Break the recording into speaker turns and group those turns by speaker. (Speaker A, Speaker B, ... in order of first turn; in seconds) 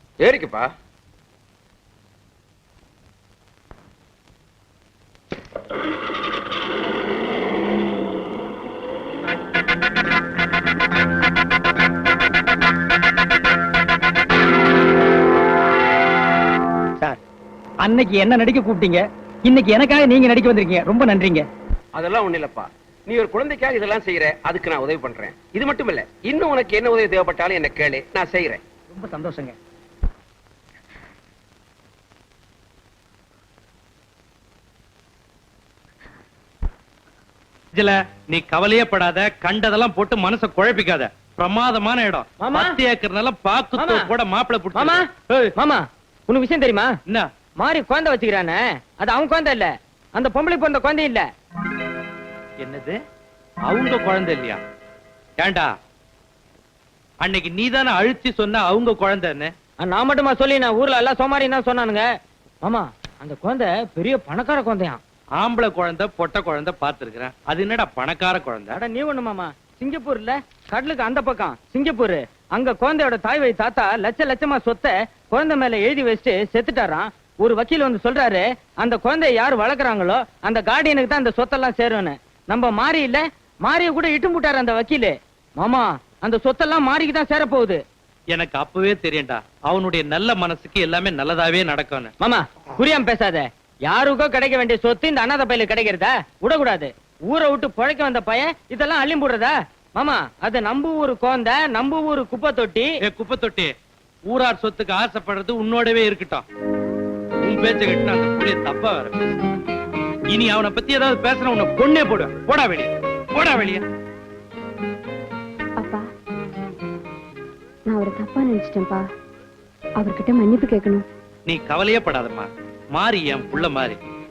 Speaker A: 0.2-0.7, 21.9-28.6
Speaker B: 17.8-21.5, 28.9-29.6
Speaker C: 37.7-45.0, 52.6-53.0, 53.7-54.6, 55.4-55.7, 57.2-59.5, 65.4-68.8, 88.3-92.1, 103.0-103.7, 104.3-106.5, 107.4-109.3, 110.3-113.8, 121.5-124.0
Speaker D: 42.4-42.8, 43.8-44.1, 44.8-46.9, 47.6-51.2, 59.8-62.0, 62.6-65.0, 68.8-87.8, 92.2-102.9
Speaker E: 115.8-116.0, 117.9-119.1, 120.0-121.0